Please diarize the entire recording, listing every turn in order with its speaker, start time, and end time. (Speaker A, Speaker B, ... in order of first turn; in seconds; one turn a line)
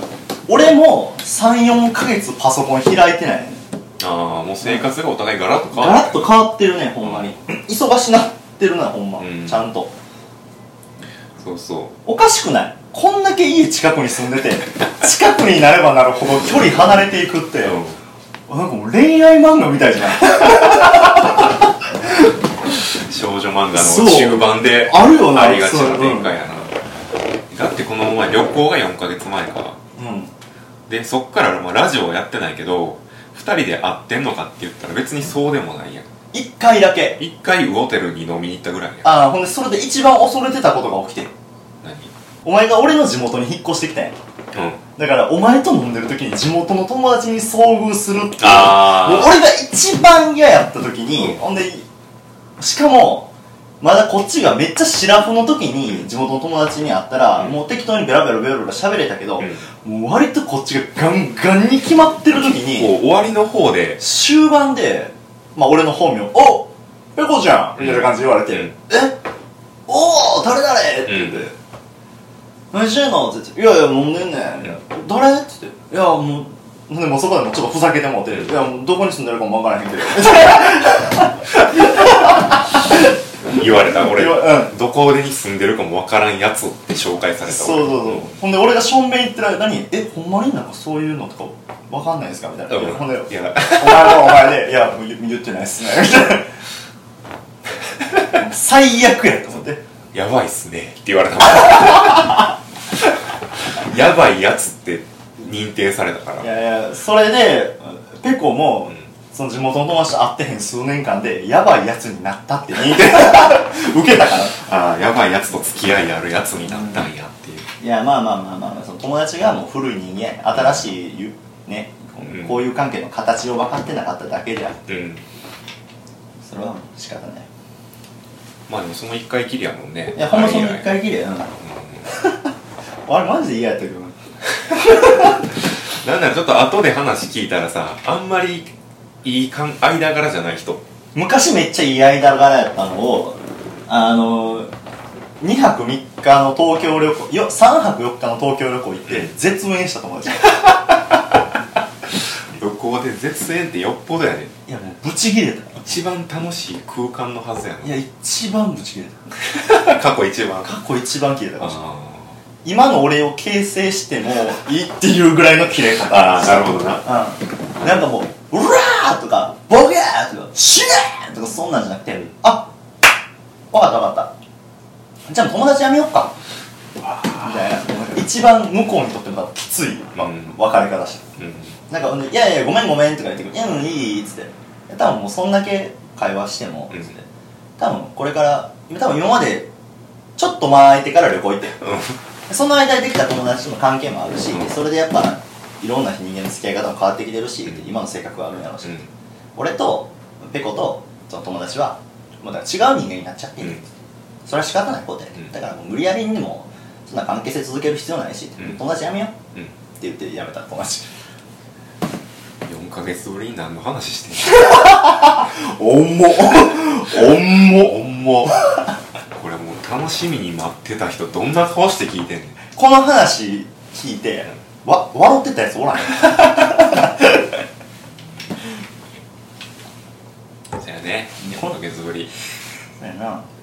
Speaker A: 0.5-3.6
Speaker B: 4.0-6.3
Speaker A: 5.8-9.9
Speaker B: 7.0-7.3
Speaker B: 9.2-9.7
Speaker B: 11.4-12.0
Speaker A: 12.1-17.8
Speaker B: 17.6-18.0
Speaker A: 18.5-21.6
Speaker B: 22.7-26.8
Speaker A: 23.7-26.3
Speaker B: 27.5-29.8
Speaker A: 30.0-30.3
Speaker B: 30.9-36.1
Speaker A: 36.3-37.2
Speaker B: 37.2-39.1
Speaker A: 39.0-41.3
Speaker B: 41.8-42.1
Speaker A: 42.4-44.2
Speaker B: 44.5-44.8
Speaker A: 45.0-51.9
Speaker B: 48.4-49.4
Speaker A: 52.6-53.3
Speaker A: 53.8-62.9
Speaker B: 59.4-59.6
Speaker B: 62.6-64.0
Speaker A: 64.0-69.2
Speaker B: 67.8-68.7
Speaker A: 69.9-71.5
Speaker B: 71.1-71.5
Speaker A: 72.7-83.0
Speaker B: 83.4-88.3
Speaker A: 83.6-84.7
Speaker A: 87.5-96.5
Speaker B: 92.7-94.5
Speaker A: 98.2-99.8
Speaker B: 100.1-102.5
Speaker B: 103.6-106.5
Speaker A: 106.4-114.7
Speaker B: 114.6-117.7
Speaker A: 116.7-117.1
Speaker A: 117.8-124.8
Speaker B: 120.5-120.8
Speaker B: 122.2-122.6
Speaker B: 124.9-125.2
Speaker A: 126.4-127.5
Speaker B: 128.7-131.0
Speaker A: 130.2-131.6
Speaker B: 131.6-132.1
Speaker A: 132.1-132.5
Speaker A: 133.1-135.4
Speaker B: 135.0-135.3
Speaker B: 135.8-138.7
Speaker B: 139.2-140.8
Speaker A: 141.2-144.7
Speaker A: 145.4-150.8
Speaker B: 152.5-154.5
Speaker A: 154.7-155.9
Speaker B: 155.8-158.0
Speaker A: 157.8-159.8
Speaker B: 159.6-160.7
Speaker A: 160.6-161.8
Speaker B: 161.6-162.4
Speaker A: 162.7-172.7
Speaker B: 166.1-167.0
Speaker A: 173.7-174.3
Speaker A: 175.3-176.3
Speaker B: 177.1-177.6
Speaker A: 177.3-181.3
Speaker B: 180.2-180.6
Speaker B: 181.4-181.8
Speaker A: 181.9-187.2
Speaker A: 187.8-189.7
Speaker A: 190.4-191.8
Speaker B: 191.8-192.2
Speaker A: 192.5-199.0
Speaker A: 199.6-203.8
Speaker A: 204.5-209.4
Speaker A: 210.0-211.1
Speaker B: 212.7-214.9
Speaker A: 214.6-218.0
Speaker B: 217.6-218.6
Speaker B: 219.3-222.6
Speaker A: 222.8-227.4
Speaker B: 230.7-232.3
Speaker A: 231.4-231.8
Speaker A: 233.0-233.4